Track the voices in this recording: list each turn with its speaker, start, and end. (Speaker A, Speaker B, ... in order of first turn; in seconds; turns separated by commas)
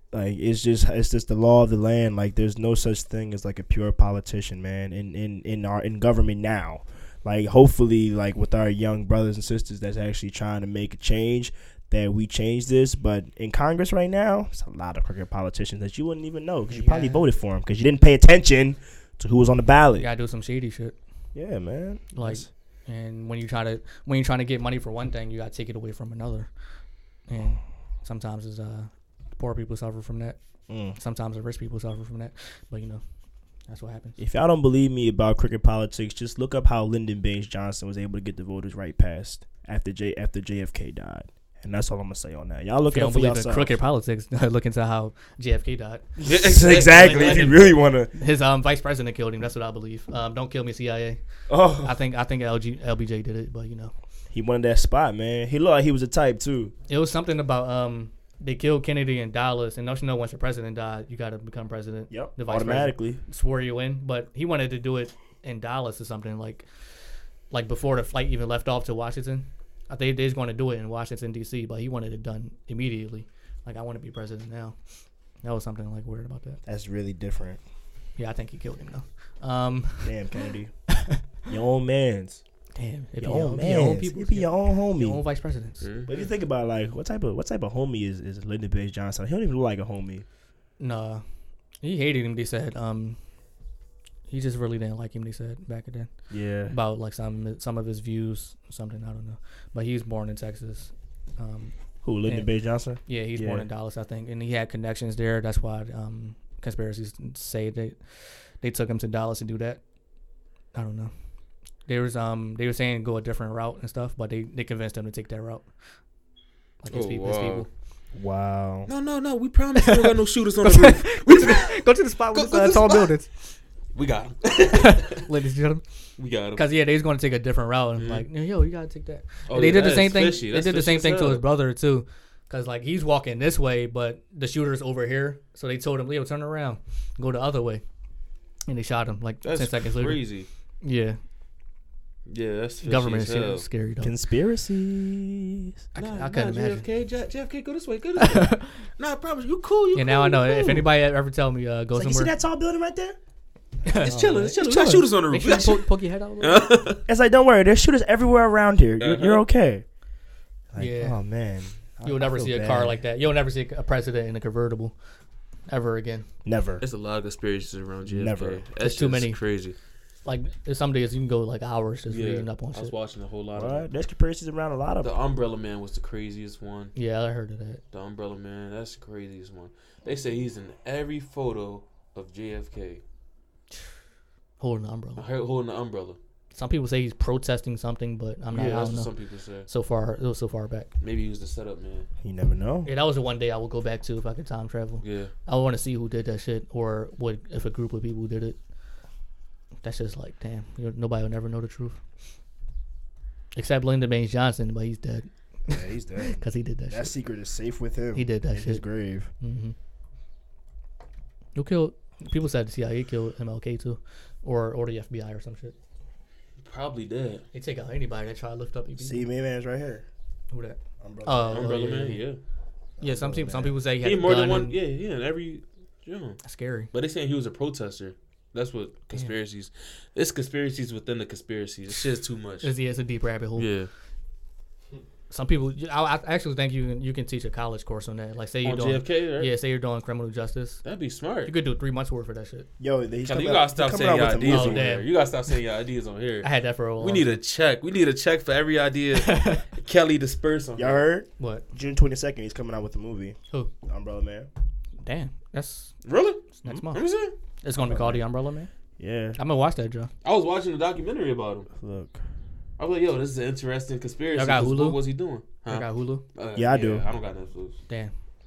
Speaker A: 0.1-20.1, Speaker B: 16.7-17.3, Speaker B: 20.0-21.0, Speaker A: 21.4-22.5, Speaker B: 22.1-26.5, Speaker B: 27.3-30.4, Speaker A: 30.7-31.0, Speaker B: 31.0-33.0, Speaker B: 33.7-34.2, Speaker A: 34.2-43.8, Speaker B: 42.9-51.2, Speaker A: 46.2-48.1, Speaker C: 46.2-47.7, Speaker A: 51.5-52.0, Speaker B: 51.8-53.9, Speaker A: 54.3-56.7, Speaker B: 56.9-66.7, Speaker A: 62.1-63.2, Speaker B: 67.5-74.8, Speaker B: 75.4-76.6, Speaker A: 76.7-77.6, Speaker B: 78.2-80.2, Speaker A: 80.0-80.7, Speaker B: 80.9-81.2, Speaker A: 81.5-82.4, Speaker B: 82.8-85.9, Speaker A: 83.2-85.2, Speaker C: 85.8-86.2, Speaker A: 86.1-90.2, Speaker B: 90.8-91.2, Speaker B: 91.8-93.2, Speaker B: 94.3-96.1, Speaker A: 96.3-96.8, Speaker B: 96.7-101.8, Speaker A: 102.0-103.7, Speaker B: 103.1-109.8, Speaker B: 110.7-111.1, Speaker B: 111.9-115.7, Speaker B: 116.8-117.7, Speaker C: 116.9-117.7, Speaker A: 118.2-118.9, Speaker C: 118.9-121.8, Speaker B: 119.8-123.3, Speaker C: 122.3-123.1, Speaker C: 123.9-125.2, Speaker B: 124.7-125.8, Speaker C: 126.2-126.6, Speaker B: 126.5-137.8, Speaker C: 128.0-128.2, Speaker C: 129.5-131.4, Speaker B: 138.7-140.2, Speaker C: 139.4-140.5, Speaker B: 140.8-141.2, Speaker C: 142.3-143.7, Speaker B: 142.8-144.1, Speaker A: 144.0-145.8, Speaker B: 145.9-146.9, Speaker C: 146.0-150.9, Speaker B: 148.2-148.8, Speaker B: 149.9-152.3, Speaker A: 151.9-153.2, Speaker B: 153.8-156.7, Speaker C: 154.0-155.9, Speaker C: 156.4-157.0, Speaker A: 157.1-159.8, Speaker C: 159.0-159.4, Speaker A: 160.7-163.0, Speaker B: 160.8-161.2, Speaker B: 162.0-165.0, Speaker B: 165.7-166.3, Speaker A: 166.4-166.8, Speaker C: 166.8-169.8, Speaker A: 168.1-168.7, Speaker B: 168.8-169.4, Speaker B: 170.2-172.9, Speaker C: 172.1-173.9, Speaker A: 173.5-175.1, Speaker C: 175.0-176.9, Speaker B: 176.9-177.8, Speaker C: 177.9-183.0, Speaker B: 184.6-185.2, Speaker C: 185.2-186.2, Speaker B: 186.5-189.1, Speaker C: 188.5-189.7, Speaker B: 189.7-190.9, Speaker C: 191.0-192.1, Speaker A: 192.2-192.9, Speaker B: 192.9-198.6, Speaker C: 195.0-195.3, Speaker B: 199.8-202.0, Speaker B: 203.6-207.1, Speaker A: 205.7-209.3, Speaker B: 208.1-208.8, Speaker B: 209.4-209.8, Speaker B: 211.6-215.8, Speaker C: 216.6-217.4, Speaker B: 217.5-219.3, Speaker A: 219.0-220.1, Speaker B: 220.5-222.2, Speaker A: 221.0-221.7, Speaker C: 221.5-222.4, Speaker A: 223.0-223.8, Speaker B: 223.0-224.8, Speaker C: 224.0-226.4, Speaker B: 226.4-226.9, Speaker C: 226.9-232.7, Speaker B: 232.6-233.7, Speaker C: 233.6-233.9, Speaker B: 235.3-240.8, Speaker C: 238.6-239.5, Speaker C: 240.8-241.5, Speaker B: 241.5-242.7, Speaker A: 242.8-244.9, Speaker C: 243.2-251.0, Speaker B: 244.4-245.1, Speaker B: 246.4-247.3, Speaker B: 249.2-249.6, Speaker A: 250.8-254.5, Speaker B: 251.4-251.7, Speaker B: 255.0-255.9, Speaker C: 256.1-257.3, Speaker B: 256.5-257.0, Speaker B: 257.6-258.7, Speaker A: 257.8-258.2, Speaker A: 259.0-259.4, Speaker B: 259.4-260.1, Speaker C: 260.2-261.7, Speaker A: 261.8-262.2, Speaker C: 262.8-267.8, Speaker B: 264.3-266.2, Speaker A: 266.6-267.1